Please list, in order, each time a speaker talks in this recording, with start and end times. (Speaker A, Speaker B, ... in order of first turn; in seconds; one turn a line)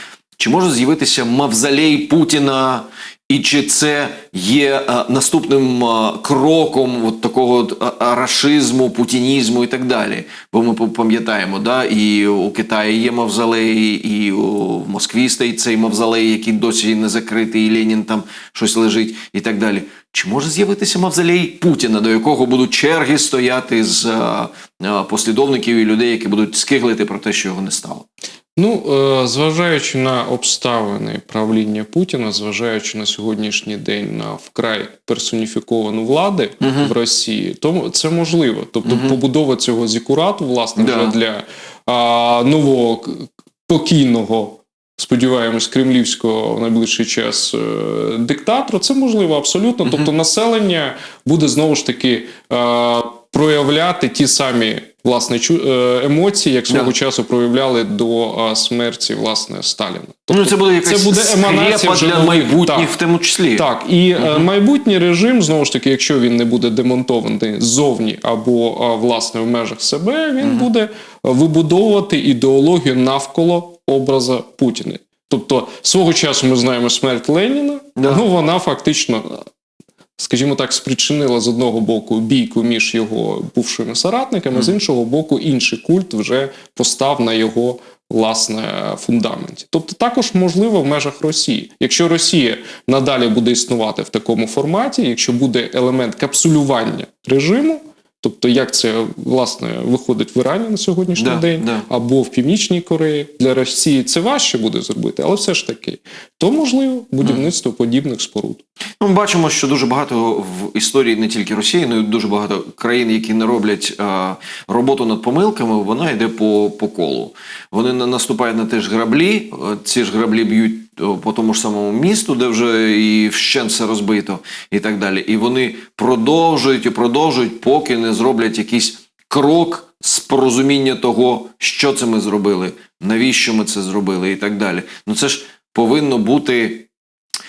Speaker A: 0.4-28.1
Speaker B: 28.6-62.9
Speaker A: 36.6-36.9
Speaker A: 38.9-39.2
Speaker A: 40.8-41.1
Speaker A: 60.3-63.6
Speaker B: 63.6-79.5
Speaker A: 64.2-64.5
Speaker A: 78.0-78.2
Speaker B: 80.2-108.6
Speaker A: 101.2-101.9
Speaker A: 109.0-136.9